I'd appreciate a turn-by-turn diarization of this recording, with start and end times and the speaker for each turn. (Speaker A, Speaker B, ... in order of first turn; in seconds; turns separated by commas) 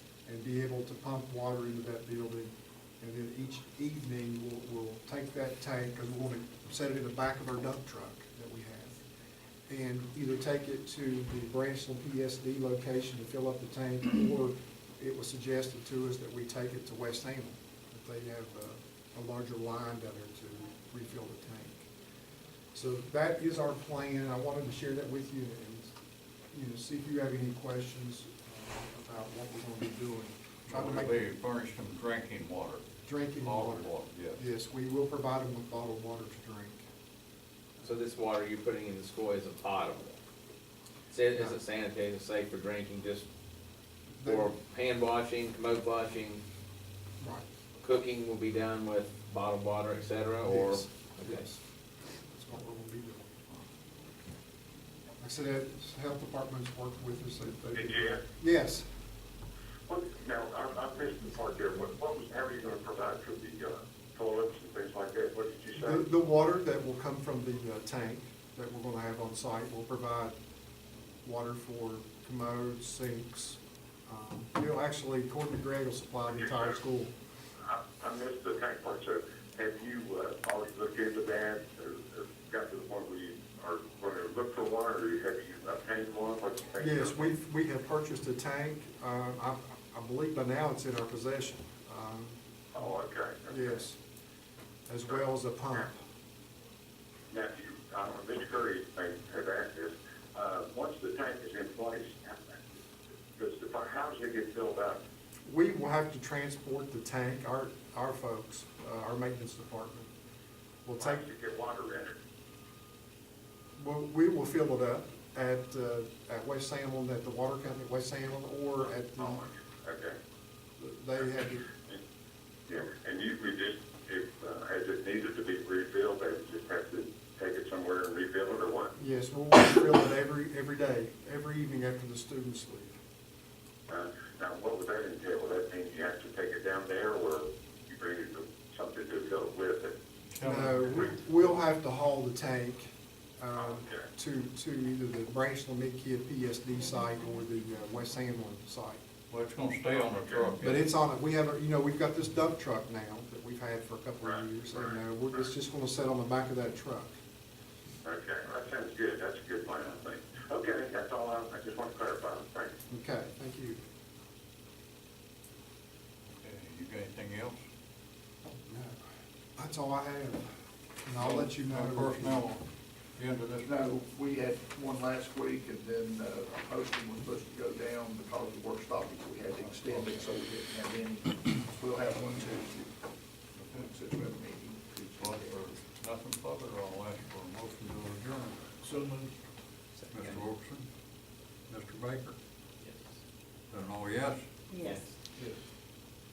Speaker A: 0.3-9.0, Speaker A: 9.7-21.9, Speaker A: 22.8-26.0, Speaker A: 26.5-31.2, Speaker B: 30.7-32.9, Speaker A: 33.0-36.9, Speaker B: 33.4-34.4, Speaker C: 37.8-40.2, Speaker C: 41.1-43.3, Speaker A: 44.2-44.5, Speaker C: 44.2-46.4, Speaker A: 47.2-47.5, Speaker C: 47.8-51.4, Speaker A: 50.4-51.6, Speaker A: 52.3-53.5, Speaker A: 55.2-58.9, Speaker D: 57.8-58.2, Speaker D: 59.9-66.0, Speaker A: 65.8-70.3, Speaker A: 71.2-77.1, Speaker D: 76.3-76.8, Speaker D: 77.6-87.3, Speaker A: 86.8-92.4, Speaker D: 92.7-93.8, Speaker A: 93.5-94.0, Speaker A: 94.9-96.0, Speaker D: 97.3-102.8, Speaker D: 103.4-105.0, Speaker A: 105.5-110.1, Speaker A: 110.9-111.2, Speaker D: 111.0-112.2, Speaker A: 113.8-119.5, Speaker D: 119.2-120.2, Speaker A: 120.8-121.7, Speaker D: 122.7-128.9, Speaker A: 129.0-132.9, Speaker D: 133.9-140.0, Speaker B: 140.3-141.1, Speaker A: 140.4-149.0, Speaker D: 143.6-144.1, Speaker B: 149.3-150.9, Speaker D: 150.0-150.5, Speaker A: 150.6-157.2, Speaker D: 154.2-155.5, Speaker D: 158.0-162.8, Speaker A: 162.9-163.8, Speaker B: 166.4-167.6, Speaker A: 168.7-169.0, Speaker A: 169.6-170.5, Speaker A: 171.0-172.4, Speaker B: 171.2-173.7, Speaker E: 173.6-182.9, Speaker B: 179.8-180.1, Speaker B: 183.6-183.9, Speaker E: 183.6-185.6, Speaker B: 185.2-188.7, Speaker E: 188.8-189.3, Speaker B: 190.1-190.9, Speaker B: 191.7-192.4, Speaker B: 193.7-194.5, Speaker C: 194.8-195.1, Speaker E: 195.3-195.6